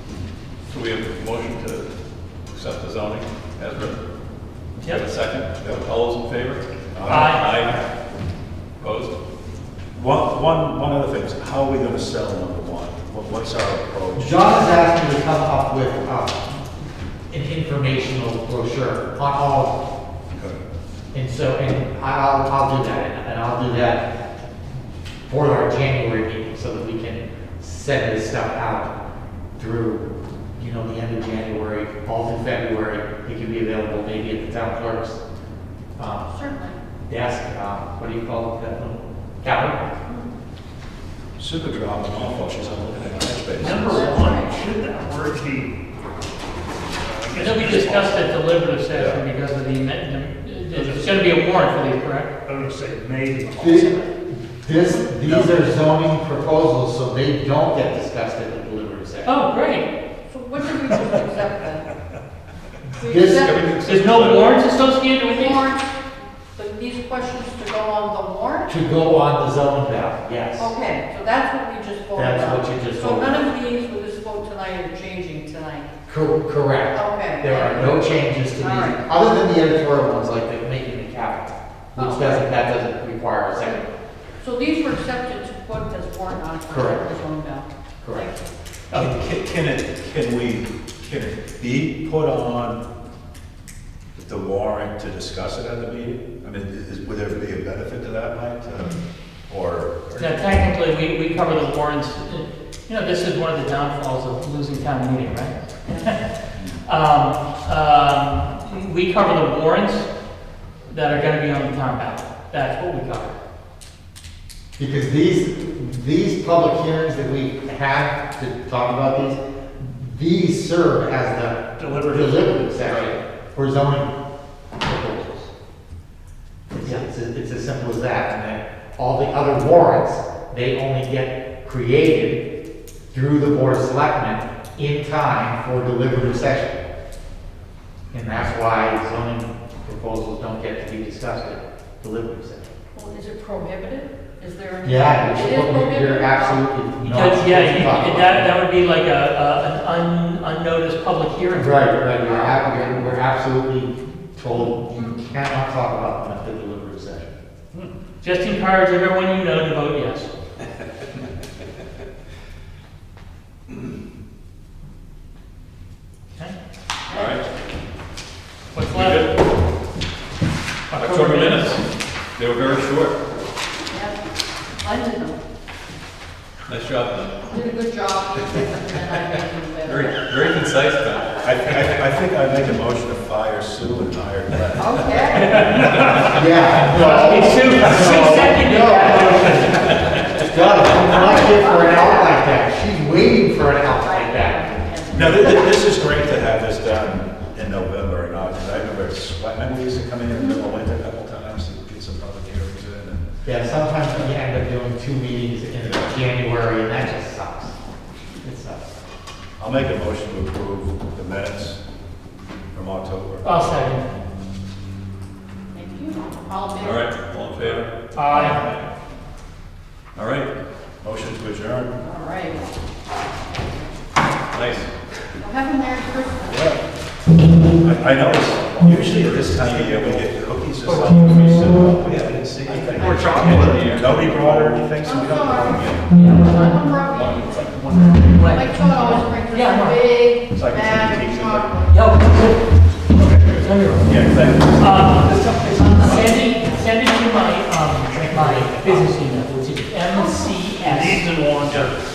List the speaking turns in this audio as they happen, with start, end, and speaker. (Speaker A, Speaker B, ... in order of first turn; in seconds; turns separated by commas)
Speaker A: 0.7-1.9, Speaker A: 2.5-4.0, Speaker A: 4.8-7.8, Speaker B: 6.9-7.3, Speaker C: 7.1-7.5, Speaker A: 8.8-9.1, Speaker B: 10.0-14.5, Speaker D: 14.2-16.4, Speaker D: 17.3-19.8, Speaker B: 20.3-20.6, Speaker D: 21.1-24.1, Speaker D: 25.3-28.9, Speaker D: 29.6-35.2, Speaker D: 36.0-36.3, Speaker E: 36.3-36.8, Speaker D: 37.1-39.9, Speaker B: 41.4-44.1, Speaker F: 43.6-45.7, Speaker E: 43.7-44.6, Speaker F: 47.0-48.3, Speaker C: 47.3-52.3, Speaker B: 48.9-49.2, Speaker F: 50.7-51.4, Speaker F: 52.5-54.0, Speaker D: 53.6-53.9, Speaker D: 54.6-59.4, Speaker C: 59.2-59.9, Speaker E: 60.3-61.9, Speaker F: 60.9-61.1, Speaker E: 63.0-63.8, Speaker D: 63.0-63.6, Speaker A: 63.3-64.6, Speaker C: 63.8-65.6, Speaker E: 65.2-68.7, Speaker D: 68.7-70.7, Speaker E: 70.6-75.9, Speaker D: 72.2-73.5, Speaker D: 76.1-83.8, Speaker E: 76.9-79.0, Speaker E: 82.0-82.5, Speaker E: 83.6-83.8, Speaker E: 84.4-87.7, Speaker D: 86.7-87.1, Speaker D: 88.0-88.4, Speaker B: 88.9-92.8, Speaker B: 94.2-99.0, Speaker B: 99.5-100.6, Speaker C: 100.2-106.3, Speaker C: 106.8-110.1, Speaker C: 110.9-113.4, Speaker D: 114.8-124.1, Speaker F: 121.8-122.6, Speaker A: 122.9-123.1, Speaker D: 124.8-125.5, Speaker D: 126.7-132.4, Speaker D: 133.1-136.8, Speaker D: 138.1-142.7, Speaker E: 142.9-146.7, Speaker D: 144.8-148.6, Speaker C: 147.0-152.0, Speaker D: 151.6-157.4, Speaker E: 152.2-153.2, Speaker C: 158.2-160.3, Speaker E: 167.1-167.4, Speaker A: 167.1-167.4, Speaker C: 168.7-169.3, Speaker A: 168.9-169.4, Speaker C: 170.9-171.8, Speaker A: 170.9-171.8, Speaker A: 172.4-173.2, Speaker E: 173.9-174.2, Speaker E: 174.8-175.4, Speaker A: 176.7-177.4, Speaker E: 177.5-180.5, Speaker A: 179.8-182.0, Speaker B: 181.4-185.7, Speaker E: 184.8-186.0, Speaker D: 186.1-194.6, Speaker C: 186.8-190.0, Speaker E: 190.9-192.6, Speaker E: 193.5-196.0, Speaker B: 195.1-203.3, Speaker D: 203.4-207.8, Speaker B: 205.8-206.1, Speaker D: 208.4-209.0, Speaker B: 209.6-211.8, Speaker B: 212.7-213.5, Speaker C: 213.4-214.1, Speaker E: 215.7-217.1, Speaker A: 216.8-218.8, Speaker B: 217.6-218.6, Speaker C: 218.2-218.6, Speaker A: 220.2-220.5, Speaker B: 221.0-221.9, Speaker E: 222.0-222.7, Speaker E: 223.5-224.0, Speaker A: 224.5-224.9, Speaker E: 225.4-226.8, Speaker B: 226.5-226.8, Speaker B: 227.8-235.9, Speaker A: 227.8-230.4, Speaker C: 230.8-231.5, Speaker A: 231.2-236.1, Speaker F: 233.1-233.9, Speaker E: 235.0-242.2, Speaker C: 236.1-236.6, Speaker A: 237.1-238.2, Speaker C: 238.3-240.2, Speaker B: 240.6-241.8, Speaker C: 241.9-251.3, Speaker F: 243.1-243.5, Speaker B: 244.1-245.1, Speaker D: 248.3-249.0, Speaker E: 250.1-250.5, Speaker F: 250.6-252.0, Speaker A: 251.7-251.9